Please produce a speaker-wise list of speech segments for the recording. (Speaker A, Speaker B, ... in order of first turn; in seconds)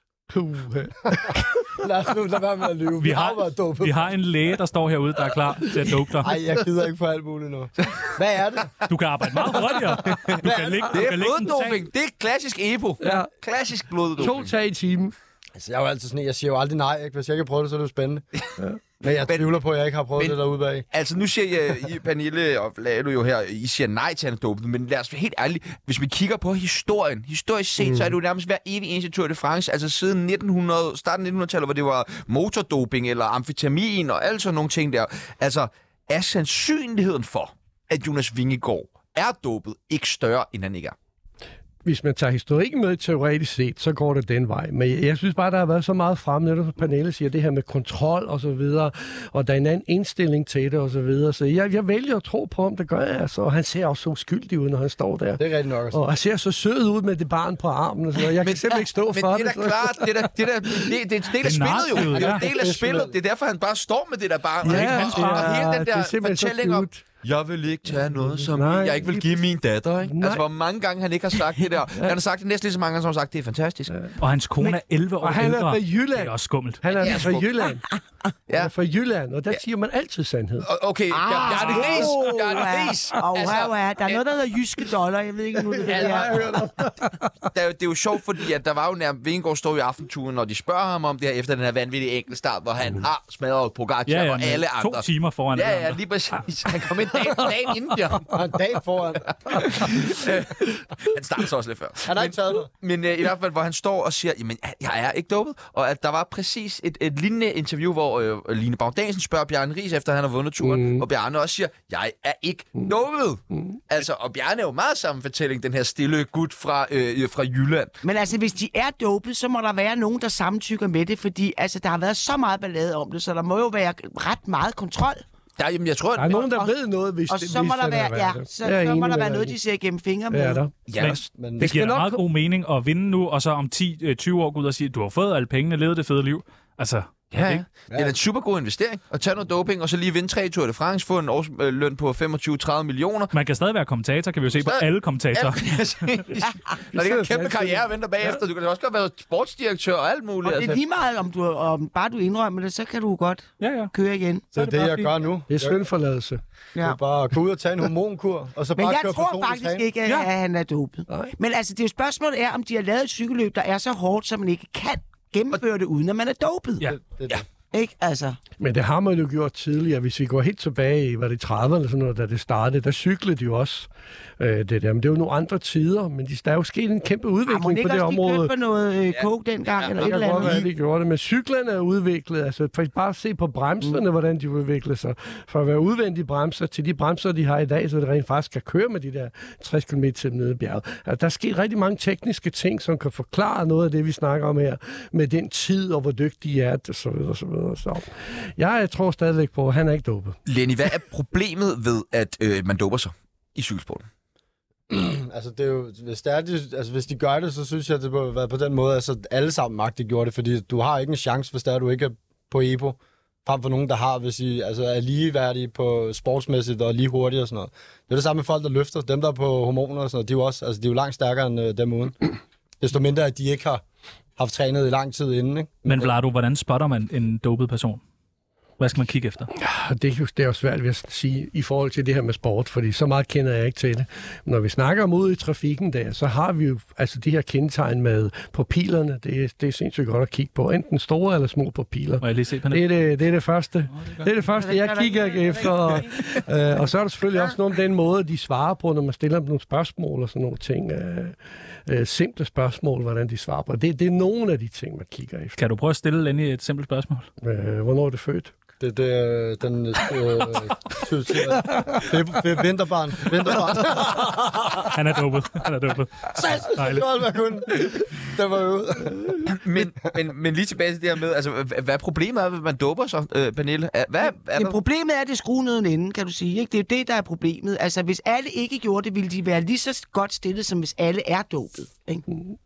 Speaker A: 0.3-1.6, 13.0-13.3, 14.2-15.1, 27.8-28.1, 41.8-61.0, 64.6-67.0, 68.0-69.5, 70.0-70.4, 75.2-77.8, 78.5-80.7, 81.7-82.1, 85.8-87.3, 110.6-111.0, 126.2-129.5, 130.3-130.7, 131.6-132.2, 146.9-148.4, 155.5-156.4, 168.6-173.9, 174.4-178.5, 180.0-200.4, 229.6-255.6, 257.4-258.5
Speaker B: 1.8-4.1, 6.2-8.7, 10.4-11.0, 15.6-18.2, 19.0-20.9, 55.4-56.0, 62.1-63.1, 98.3-99.7, 102.0-102.7, 131.3-131.7, 137.9-138.2, 154.5-155.8, 156.8-159.8, 166.9-167.4, 204.9-222.2, 222.8-223.8, 224.4-226.1, 258.8-264.9, 266.4-269.9
Speaker C: 3.0-6.3, 8.9-11.8, 61.4-62.5, 64.6-65.6, 74.2-77.0, 81.5-81.9, 94.1-96.0, 131.0-137.6, 143.3-146.2, 153.6-153.9, 154.5-155.1, 225.8-228.0, 228.8-229.5, 242.2-242.9, 255.6-257.3, 264.8-267.1
Speaker D: 10.1-10.4, 10.9-14.5, 20.9-40.9, 58.3-73.9, 77.0-77.5, 80.6-84.2, 85.9-86.5, 87.5-98.4, 99.3-117.9, 125.6-126.5, 130.9-131.3, 137.3-143.3, 144.5-150.8, 179.8-180.7, 200.4-204.0, 269.5-274.8
Speaker E: 81.1-86.4, 118.0-125.2, 126.3-126.7, 127.3-130.6, 150.4-154.4, 158.8-166.9, 167.7-168.4, 177.5-180.6, 244.6-246.2, 274.5-282.2